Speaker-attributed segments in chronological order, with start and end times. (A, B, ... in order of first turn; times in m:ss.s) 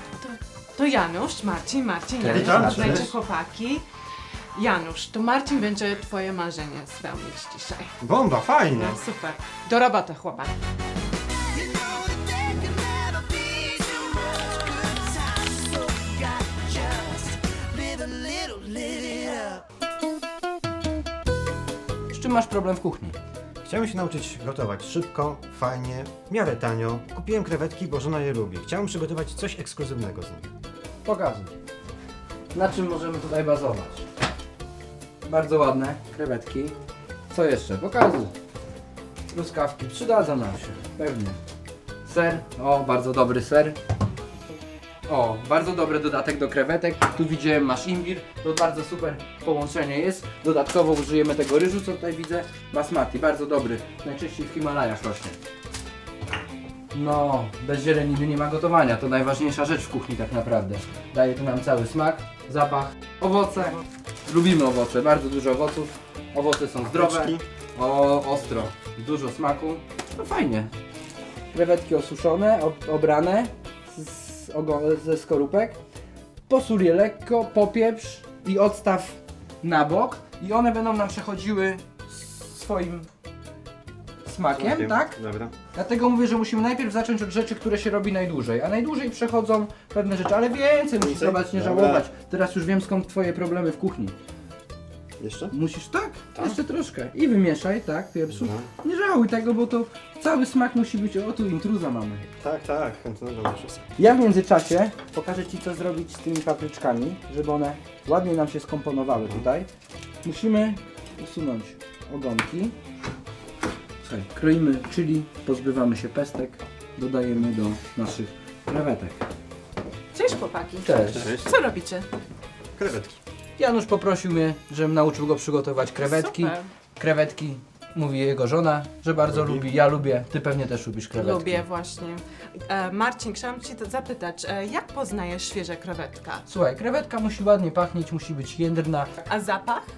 0:00.2-0:08.0 A
0:02.2-0:03.1 B
0:02.2-0:03.0 C
0:08.0-0:09.0 B
0:08.8-0:10.6 A
0:22.1-0:23.2 C
0:23.6-0:30.5 B
0:31.0-0:31.5 C
0:32.5-0:34.0 C
0:35.2-0:36.8 C
0:37.3-0:38.3 C
0:39.3-0:41.4 C
0:42.0-0:43.8 C
0:45.1-0:55.4 C
0:56.9-1:10.7 C
1:06.8-1:07.4 B
1:11.5-1:15.8 C
1:16.5-1:23.1 C
1:24.2-1:25.2 C
1:24.5-1:25.5 B
1:25.7-1:34.2 C
1:31.0-1:32.1 B
1:35.2-1:35.5 B
1:35.5-1:42.3 C
1:38.3-1:38.7 B
1:42.4-1:43.9 B
1:44.0-1:49.7 C
1:50.2-1:52.8 C
1:54.0-1:59.2 C
2:00.1-2:02.1 A
2:00.8-2:01.3 C
2:01.0-2:01.5 B
2:02.8-2:03.2 B
2:03.6-2:11.7 C
2:06.0-2:06.7 A
2:09.2-2:09.7 B
2:11.1-2:16.5 A
2:16.5-2:19.1 C
2:19.2-2:19.9 A